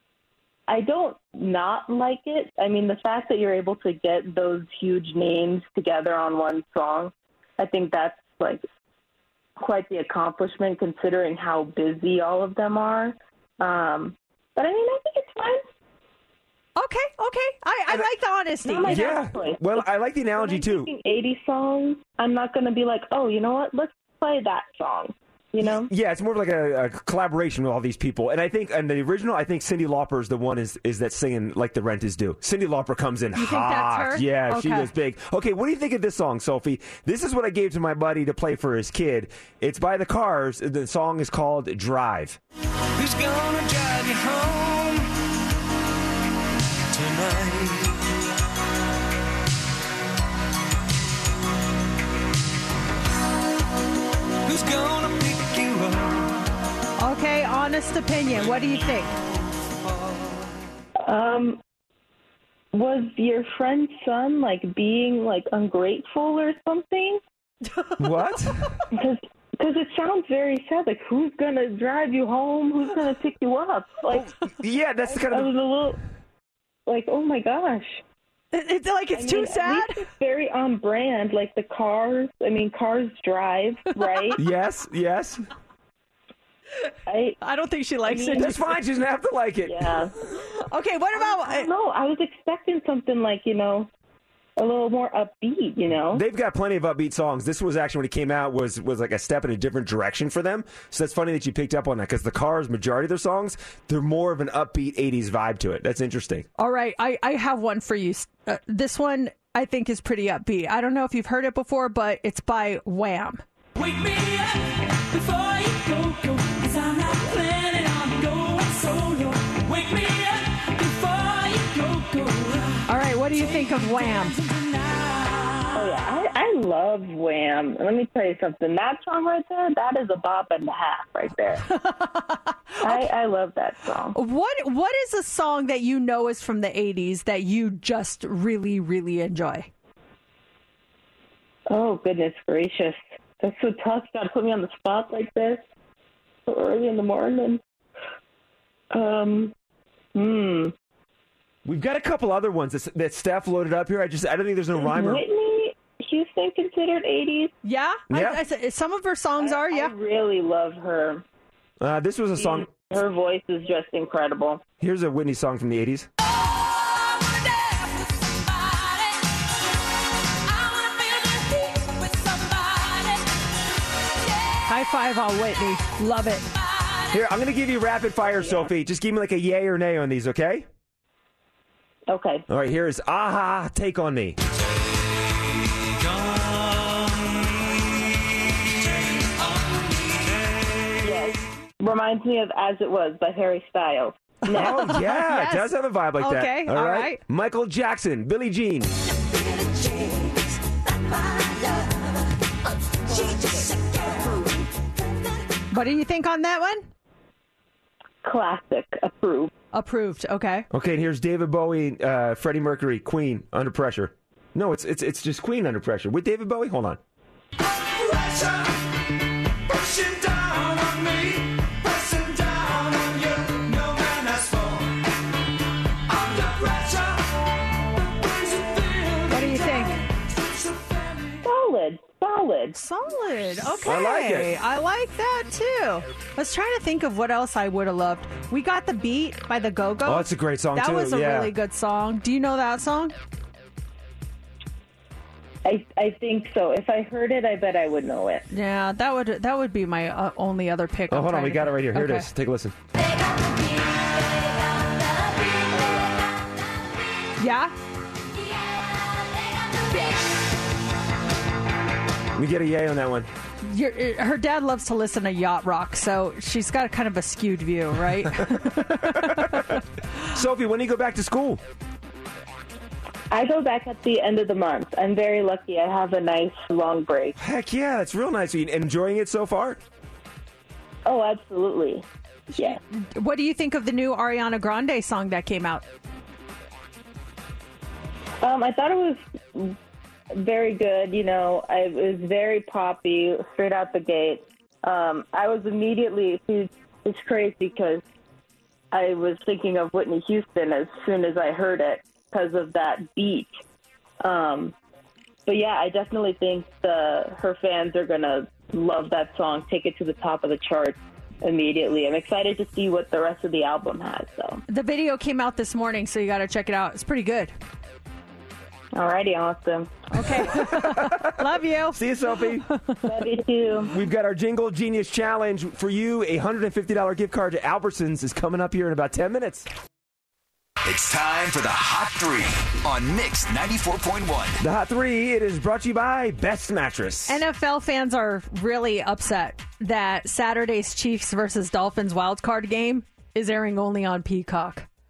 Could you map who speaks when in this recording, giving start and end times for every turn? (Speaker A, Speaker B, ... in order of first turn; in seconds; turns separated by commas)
Speaker A: 0.7-8.6, Speaker A: 9.6-15.6, Speaker B: 16.8-19.1, Speaker A: 18.6-25.9, Speaker C: 18.9-20.9, Speaker C: 25.7-42.4, Speaker B: 33.4-34.9, Speaker D: 43.0-45.1, Speaker D: 46.9-48.1, Speaker D: 54.5-56.4, Speaker B: 57.0-59.1, Speaker D: 59.6-60.4, Speaker A: 61.1-61.6, Speaker A: 62.7-67.2, Speaker B: 67.7-68.4, Speaker C: 68.0-68.7, Speaker A: 68.9-74.3, Speaker C: 74.1-75.5, Speaker A: 75.1-76.0, Speaker A: 76.9-78.0, Speaker B: 78.5-80.1, Speaker A: 79.2-84.4, Speaker B: 84.0-84.3, Speaker C: 84.4-85.4, Speaker A: 87.1-87.4, Speaker B: 87.4-88.8, Speaker A: 88.1-88.6, Speaker C: 88.3-90.0, Speaker A: 89.7-90.1, Speaker B: 90.6-91.7, Speaker A: 91.1-93.9, Speaker A: 94.6-96.2, Speaker C: 96.1-106.5, Speaker B: 106.6-113.4, Speaker D: 113.8-114.5, Speaker D: 115.1-116.7, Speaker A: 117.1-117.4, Speaker D: 117.6-122.7, Speaker B: 122.9-124.4, Speaker A: 125.7-131.6, Speaker B: 131.7-133.1, Speaker A: 132.8-134.2, Speaker B: 134.1-139.7, Speaker A: 141.7-145.6, Speaker A: 146.5-147.6, Speaker A: 148.9-149.5, Speaker A: 150.2-150.7, Speaker C: 151.7-155.2, Speaker A: 154.8-157.5, Speaker B: 157.6-159.9, Speaker C: 158.1-158.4, Speaker A: 159.4-161.2, Speaker C: 161.8-162.7, Speaker A: 162.4-164.6, Speaker C: 164.8-166.1, Speaker B: 174.7-176.5, Speaker C: 177.1-180.7, Speaker A: 182.1-182.4, Speaker C: 182.5-184.4, Speaker D: 186.2-187.3, Speaker A: 191.0-194.9, Speaker B: 194.5-197.2, Speaker C: 194.5-198.9, Speaker B: 205.7-206.9, Speaker A: 208.2-209.5, Speaker B: 209.7-210.7, Speaker C: 210.7-217.0, Speaker D: 217.9-218.8, Speaker D: 219.7-225.0, Speaker D: 226.1-227.4, Speaker D: 228.2-231.1, Speaker B: 229.3-230.0, Speaker A: 231.4-232.8, Speaker B: 232.8-243.2, Speaker C: 233.8-234.6, Speaker C: 240.1-241.5, Speaker A: 245.7-248.4, Speaker B: 248.5-252.3, Speaker C: 251.1-252.8, Speaker B: 257.4-257.7, Speaker C: 262.4-263.3, Speaker B: 263.6-269.8, Speaker C: 269.0-269.8, Speaker C: 270.3-271.6, Speaker A: 273.3-277.4, Speaker C: 277.4-279.8, Speaker A: 281.1-282.0, Speaker B: 282.6-285.9, Speaker A: 288.4-289.8, Speaker A: 290.4-298.0, Speaker A: 298.9-303.5, Speaker A: 304.2-304.7, Speaker A: 305.5-314.6, Speaker B: 314.7-317.5, Speaker A: 319.0-320.1, Speaker B: 320.1-323.1, Speaker C: 320.3-322.7, Speaker A: 323.1-323.9, Speaker C: 323.9-329.7, Speaker E: 330.8-334.6, Speaker C: 334.6-337.4, Speaker B: 337.3-344.9